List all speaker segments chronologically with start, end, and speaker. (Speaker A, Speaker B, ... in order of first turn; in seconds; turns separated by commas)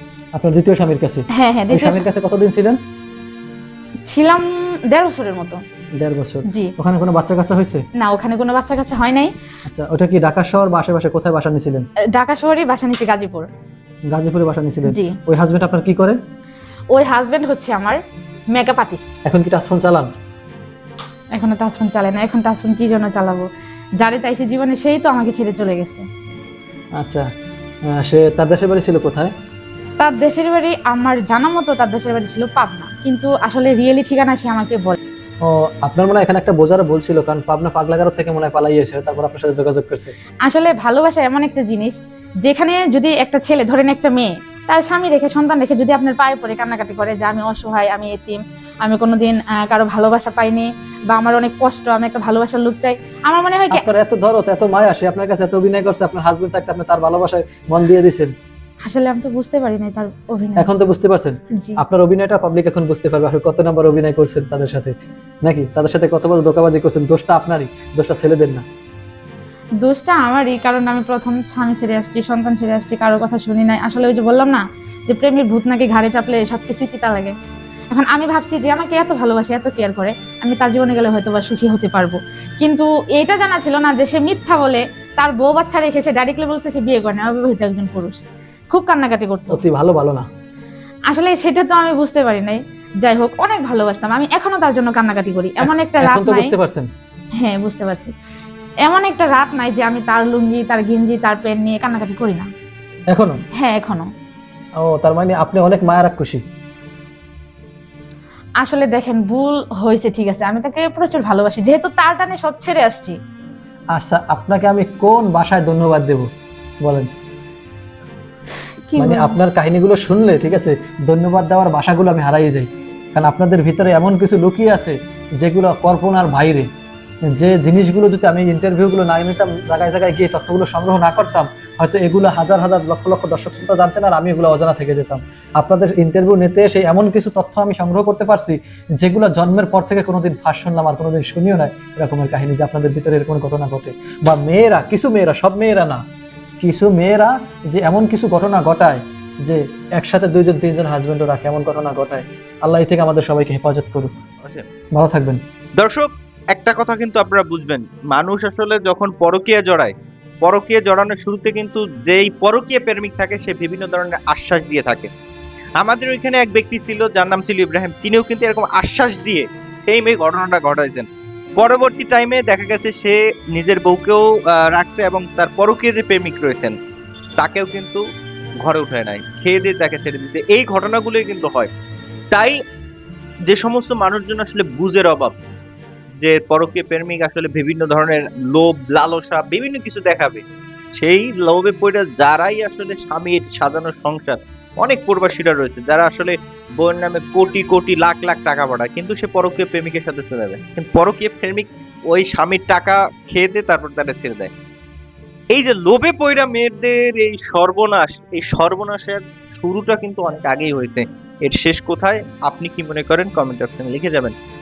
Speaker A: 0.3-2.8, Speaker B: 1.3-2.1, Speaker B: 4.0-5.6, Speaker A: 6.0-7.8, Speaker B: 8.0-9.3, Speaker A: 9.7-11.9, Speaker B: 12.1-13.5, Speaker A: 14.1-16.2, Speaker B: 14.9-15.2, Speaker B: 16.9-18.0, Speaker B: 18.5-19.1, Speaker A: 19.2-20.1, Speaker B: 21.4-23.5, Speaker B: 24.0-26.1, Speaker A: 27.0-27.3, Speaker A: 27.9-29.3, Speaker B: 30.0-35.0, Speaker A: 35.4-40.1, Speaker B: 40.5-53.8, Speaker A: 53.7-58.3, Speaker B: 58.9-60.7, Speaker A: 60.6-68.6, Speaker B: 69.8-77.3, Speaker B: 77.9-89.6, Speaker A: 89.5-90.3, Speaker B: 91.1-96.5, Speaker A: 95.6-96.9, Speaker B: 97.4-98.1, Speaker B: 98.8-102.5, Speaker A: 103.1-103.4, Speaker B: 103.6-104.1, Speaker A: 104.8-106.4, Speaker B: 108.6-113.2, Speaker A: 114.0-116.3, Speaker A: 116.8-117.1, Speaker B: 118.9-119.4, Speaker A: 119.0-126.7, Speaker A: 127.4-146.0, Speaker A: 146.6-154.1, Speaker A: 155.0-155.4, Speaker C: 155.8-165.1, Speaker C: 165.8-171.1, Speaker C: 171.6-176.8, Speaker C: 177.4-178.0, Speaker C: 178.6-181.7, Speaker C: 182.3-182.6, Speaker C: 183.5-185.3, Speaker C: 186.2-190.4, Speaker C: 190.9-204.5, Speaker C: 205.5-214.3